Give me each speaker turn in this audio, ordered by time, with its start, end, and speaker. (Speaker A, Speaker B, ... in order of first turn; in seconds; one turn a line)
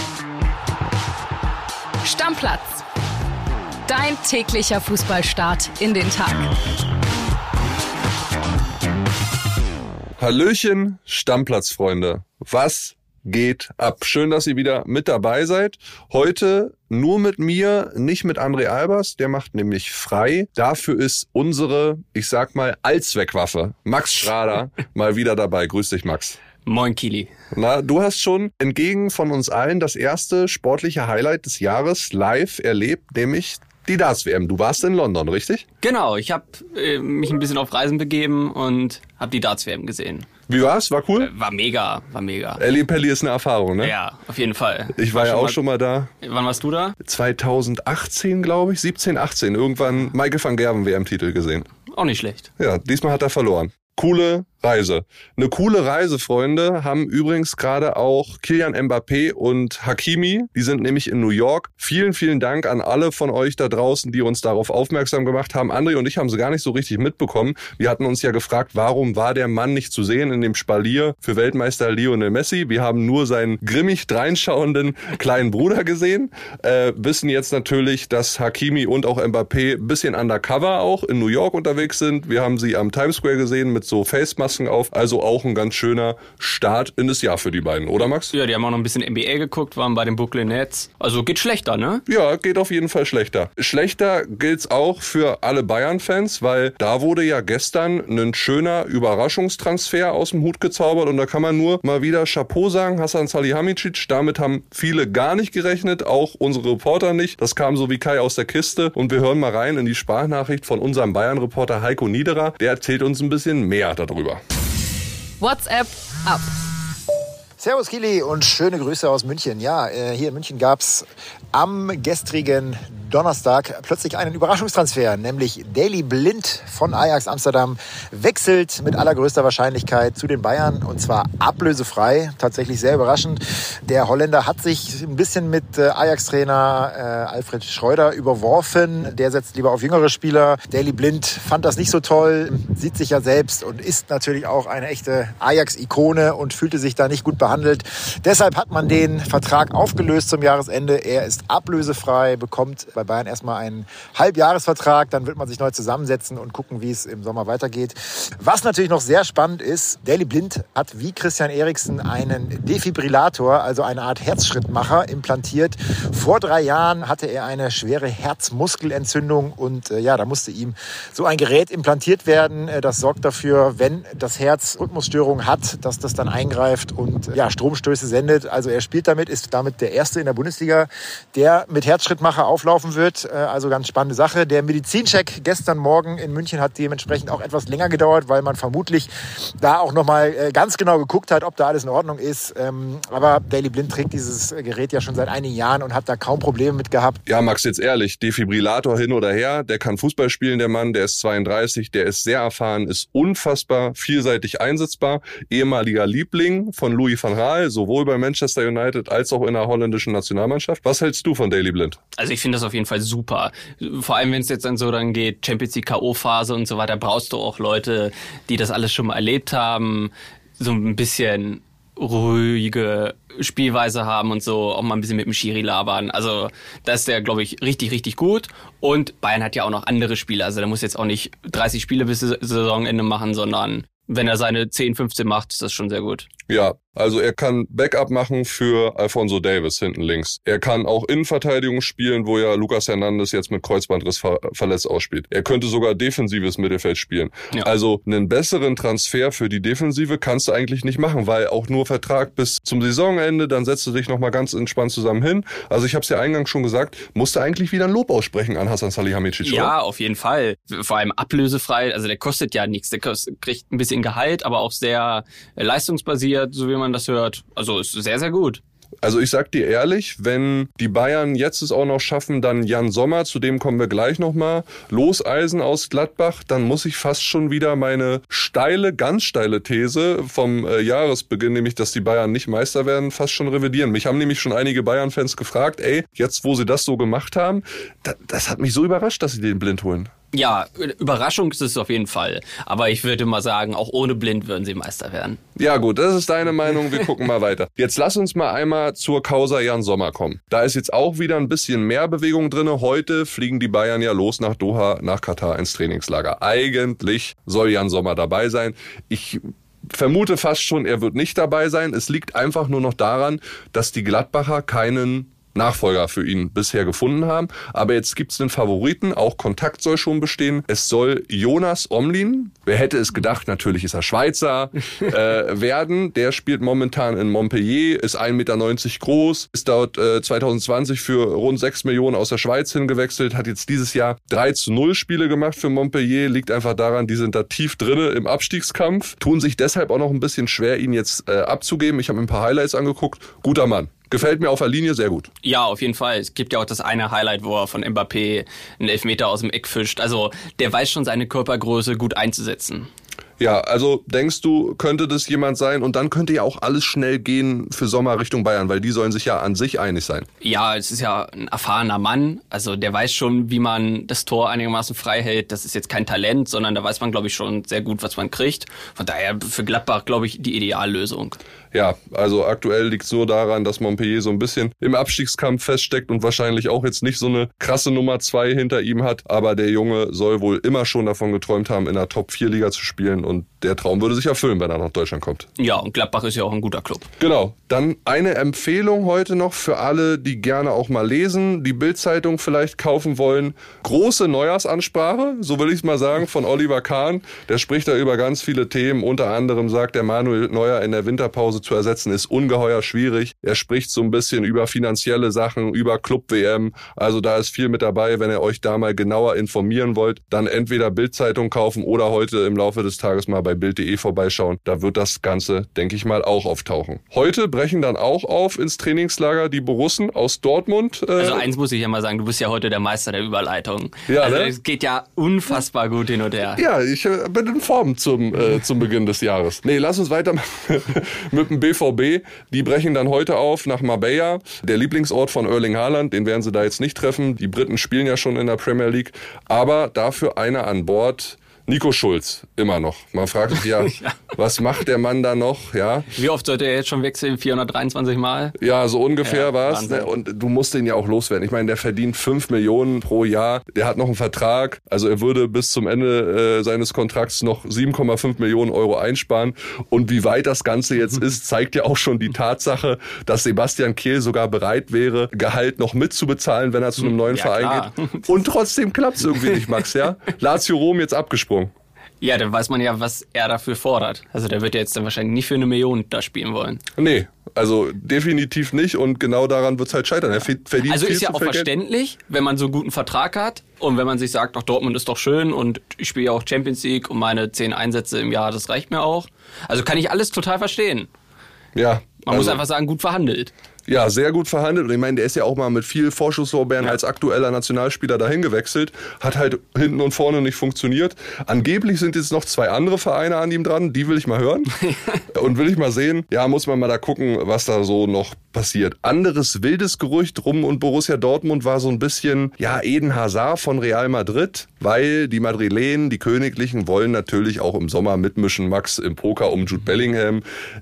Speaker A: 2.0-2.8
Speaker A: 3.9-6.5
Speaker B: 10.2-26.4
Speaker C: 26.6-27.3
Speaker B: 27.5-35.6
Speaker C: 35.8-40.3
Speaker B: 40.5-41.3
Speaker C: 41.2-42.6
Speaker B: 42.6-43.9
Speaker C: 43.8-45.6
Speaker B: 45.0-46.1
Speaker C: 46.2-47.0
Speaker B: 47.0-51.7
Speaker C: 51.9-52.5
Speaker B: 52.6-88.3
Speaker C: 88.3-92.0
Speaker B: 92.1-114.4
Speaker A: 115.4-116.5
Speaker D: 117.6-189.1
Speaker D: 189.6-197.2
Speaker B: 197.3-212.0
Speaker C: 212.2-236.3
Speaker B: 236.5-259.7
Speaker C: 259.4-268.6
Speaker B: 269.0-290.1
Speaker C: 290.3-295.4
Speaker B: 295.6-345.3
Speaker C: 345.4-352.9
Speaker B: 353.4-360.3
Speaker C: 360.4-371.4
Speaker B: 371.7-385.5
Speaker C: 385.6-387.1
Speaker B: 387.2-421.5
Speaker C: 421.2-426.6
Speaker B: 424.1-424.5
Speaker B: 426.6-446.1
Speaker C: 443.8-444.1
Speaker C: 446.1-448.6
Speaker B: 448.6-471.7
Speaker C: 449.2-450.1
Speaker C: 467.0-468.3
Speaker C: 469.3-470.1
Speaker C: 472.2-476.8
Speaker B: 477.0-481.7
Speaker C: 480.9-491.1
Speaker B: 491.8-492.6
Speaker C: 492.2-493.5
Speaker B: 493.9-504.7
Speaker C: 504.9-505.2
Speaker B: 505.3-520.4